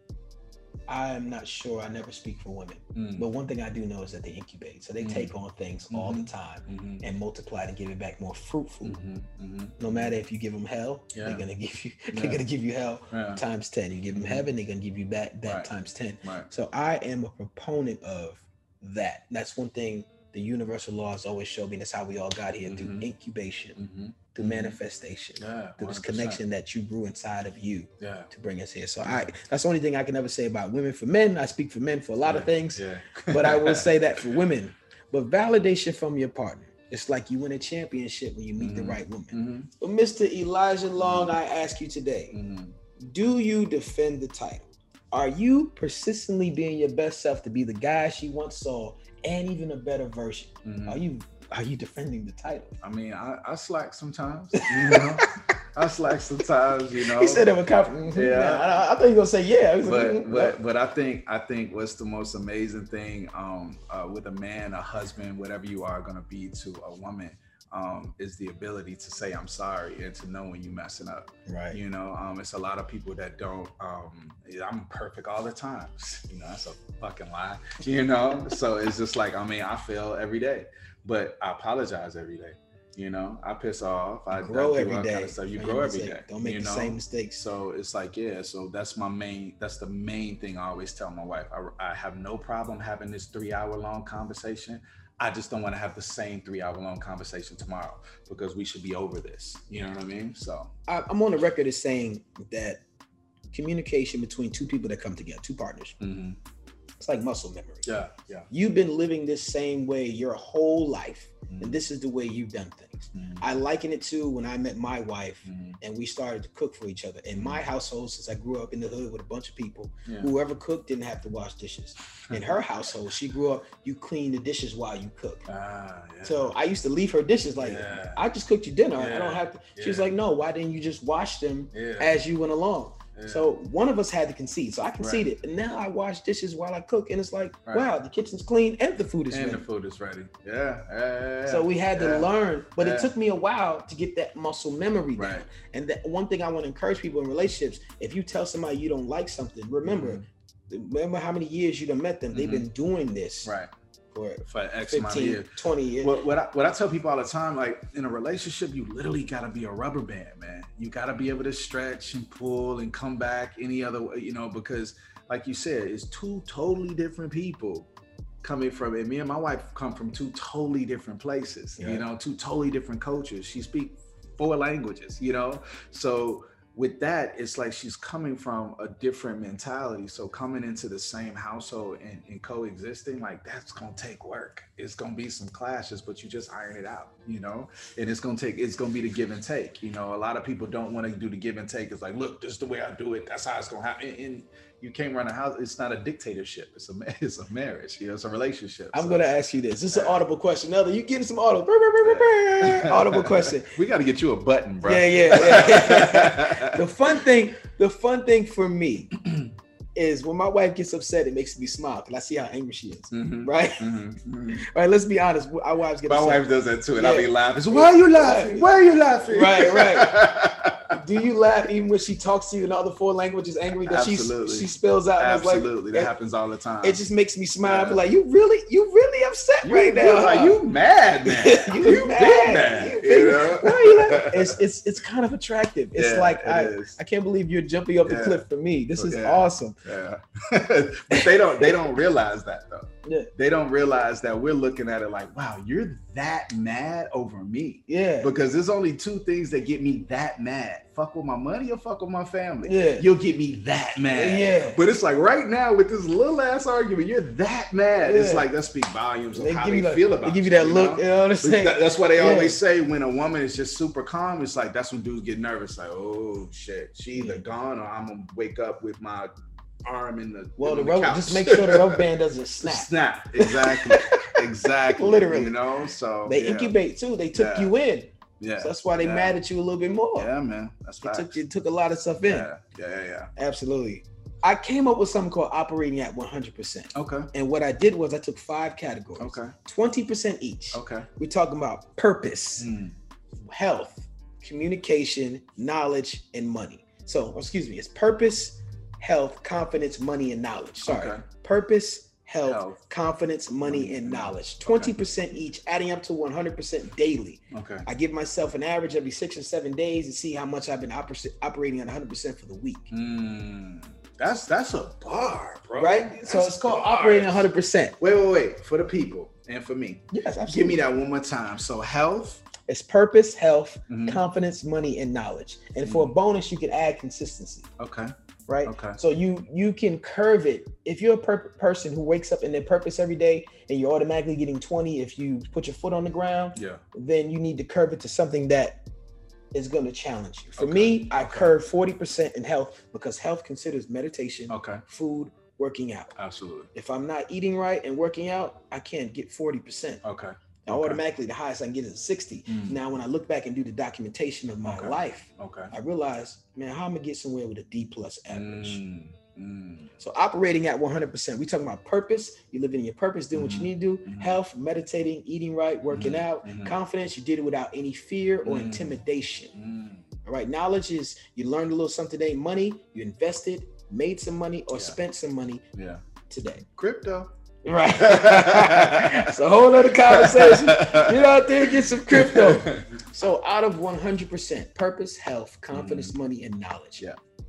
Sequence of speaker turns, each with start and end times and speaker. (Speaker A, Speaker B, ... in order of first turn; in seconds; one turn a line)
Speaker A: 0.9-9.0
Speaker B: 3.0-3.2
Speaker B: 5.0-5.3
Speaker B: 5.9-7.0
Speaker B: 8.8-10.2
Speaker A: 9.8-23.8
Speaker B: 11.2-11.5
Speaker B: 12.1-12.4
Speaker B: 13.1-13.4
Speaker B: 14.1-14.5
Speaker B: 15.5-15.7
Speaker B: 16.2-16.5
Speaker B: 22.7-23.1
Speaker B: 23.8-24.8
Speaker A: 24.3-42.4
Speaker B: 25.4-26.4
Speaker B: 28.0-28.3
Speaker B: 29.1-29.3
Speaker B: 32.2-34.3
Speaker B: 38.6-39.7
Speaker B: 41.0-41.4
Speaker B: 42.3-42.8
Speaker A: 43.0-52.8
Speaker B: 50.6-51.0
Speaker B: 52.8-57.5
Speaker A: 54.6-55.3
Speaker A: 57.0-60.6
Speaker B: 58.1-58.7
Speaker B: 59.8-100.7
Speaker A: 71.5-71.8
Speaker A: 84.3-87.4
Speaker A: 100.9-102.8
Speaker A: 103.5-106.0
Speaker B: 106.0-106.4
Speaker A: 107.0-107.9
Speaker B: 107.8-108.5
Speaker A: 108.5-125.5
Speaker B: 111.5-111.8
Speaker B: 113.1-113.4
Speaker B: 115.5-115.8
Speaker B: 117.3-117.6
Speaker B: 122.3-122.5
Speaker B: 125.5-126.5
Speaker A: 126.2-139.7
Speaker B: 127.6-128.2
Speaker B: 128.9-130.1
Speaker B: 131.7-132.2
Speaker B: 133.2-133.5
Speaker B: 135.0-135.3
Speaker B: 139.3-143.1
Speaker A: 141.5-153.5
Speaker B: 145.2-145.5
Speaker B: 149.8-150.2
Speaker B: 152.3-152.7
Speaker B: 153.4-153.7
Speaker A: 154.1-156.2
Speaker B: 154.5-167.9
Speaker B: 168.4-199.2
Speaker A: 171.8-172.1
Speaker A: 198.9-203.8
Speaker B: 199.9-200.2
Speaker B: 202.0-207.2
Speaker A: 204.8-209.1
Speaker B: 209.2-209.5
Speaker A: 210.0-213.9
Speaker B: 213.1-214.6
Speaker A: 214.5-218.7
Speaker B: 216.1-221.0
Speaker A: 219.3-220.3
Speaker A: 220.9-226.1
Speaker B: 223.8-227.0
Speaker A: 226.8-230.6
Speaker B: 227.6-228.0
Speaker B: 229.6-234.6
Speaker A: 231.2-239.8
Speaker B: 235.9-237.0
Speaker B: 238.0-238.5
Speaker B: 239.0-269.3
Speaker A: 241.1-241.7
Speaker A: 243.1-243.3
Speaker A: 247.9-248.3
Speaker A: 252.7-253.1
Speaker A: 254.1-254.8
Speaker A: 258.0-258.5
Speaker A: 259.3-262.6
Speaker A: 267.1-267.4
Speaker B: 269.8-272.0
Speaker A: 270.6-275.6
Speaker B: 272.6-276.8
Speaker A: 276.2-280.3
Speaker B: 277.3-277.7
Speaker B: 278.4-279.4
Speaker B: 280.1-281.4
Speaker A: 281.0-282.5
Speaker B: 282.2-283.3
Speaker A: 283.4-292.7
Speaker B: 286.9-287.3
Speaker B: 289.2-289.6
Speaker B: 290.7-291.1
Speaker B: 292.6-293.0
Speaker A: 293.4-312.9
Speaker B: 300.8-301.2
Speaker B: 302.4-302.8
Speaker B: 303.6-304.9
Speaker B: 307.5-307.9
Speaker B: 312.9-322.5
Speaker A: 315.8-318.0
Speaker A: 320.1-320.8
Speaker A: 322.7-327.7
Speaker B: 323.9-324.2
Speaker B: 325.9-326.1
Speaker B: 327.8-328.1
Speaker A: 328.5-338.8
Speaker B: 328.6-329.0
Speaker B: 336.6-336.8
Speaker A: 339.5-346.1
Speaker B: 340.6-341.6
Speaker B: 344.5-344.8
Speaker B: 346.2-346.7
Speaker A: 346.7-350.0
Speaker B: 350.0-351.0
Speaker A: 350.7-358.8
Speaker B: 352.5-352.8
Speaker B: 354.6-355.7
Speaker B: 358.3-359.9
Speaker A: 360.0-369.6
Speaker B: 363.3-364.4
Speaker B: 365.9-366.8
Speaker B: 368.4-369.0
Speaker B: 369.6-370.1
Speaker A: 370.2-375.6
Speaker B: 375.7-376.1
Speaker A: 376.3-376.6
Speaker B: 376.6-377.3
Speaker A: 377.6-387.0
Speaker B: 378.0-383.0
Speaker B: 385.7-386.1